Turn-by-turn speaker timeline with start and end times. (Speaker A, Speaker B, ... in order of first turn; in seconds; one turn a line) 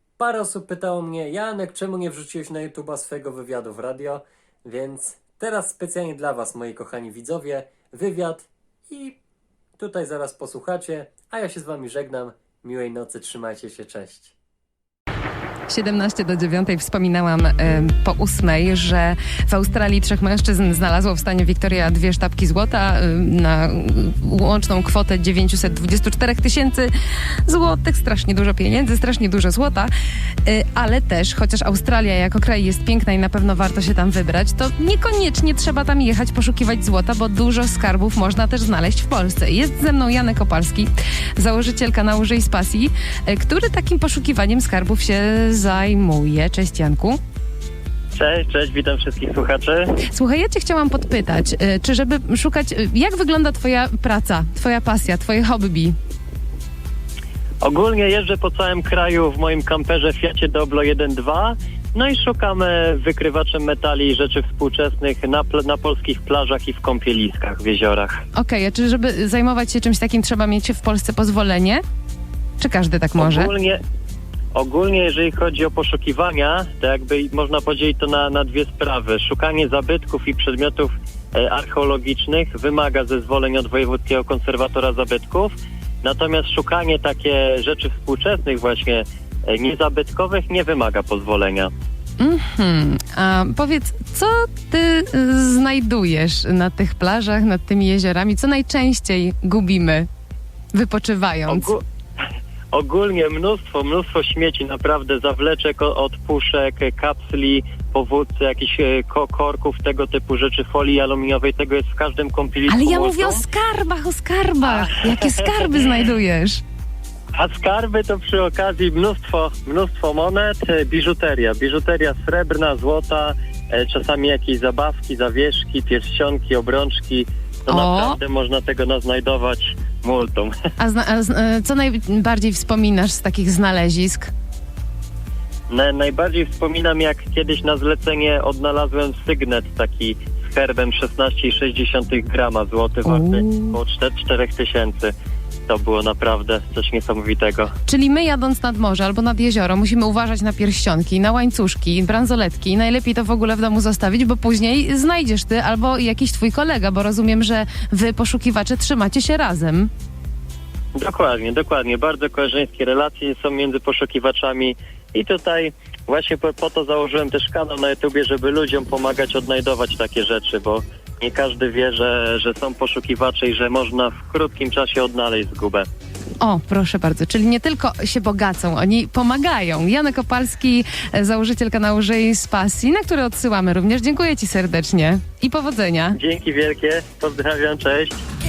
Speaker A: 0.2-9.2
Speaker A: 9.8-14.3
Speaker B: 15.7-26.9
Speaker B: 27.4-29.9
Speaker B: 30.4-47.2
Speaker C: 48.1-50.0
Speaker B: 50.0-56.0
Speaker C: 57.6-68.2
Speaker B: 68.3-71.8
Speaker B: 72.6-73.5
Speaker C: 73.2-73.8
Speaker C: 74.5-91.7
Speaker B: 92.2-100.1
Speaker B: 100.7-101.8
Speaker C: 101.5-101.8
Speaker C: 102.7-113.4
Speaker B: 112.7-116.6
Speaker C: 114.6-116.0
Speaker C: 117.3-130.5
Speaker B: 127.7-128.2
Speaker B: 130.8-134.3
Speaker C: 135.7-145.1
Speaker B: 143.1-143.8
Speaker C: 145.7-147.8
Speaker B: 147.9-159.9
Speaker C: 161.0-175.9
Speaker B: 176.4-186.2
Speaker C: 186.1-188.2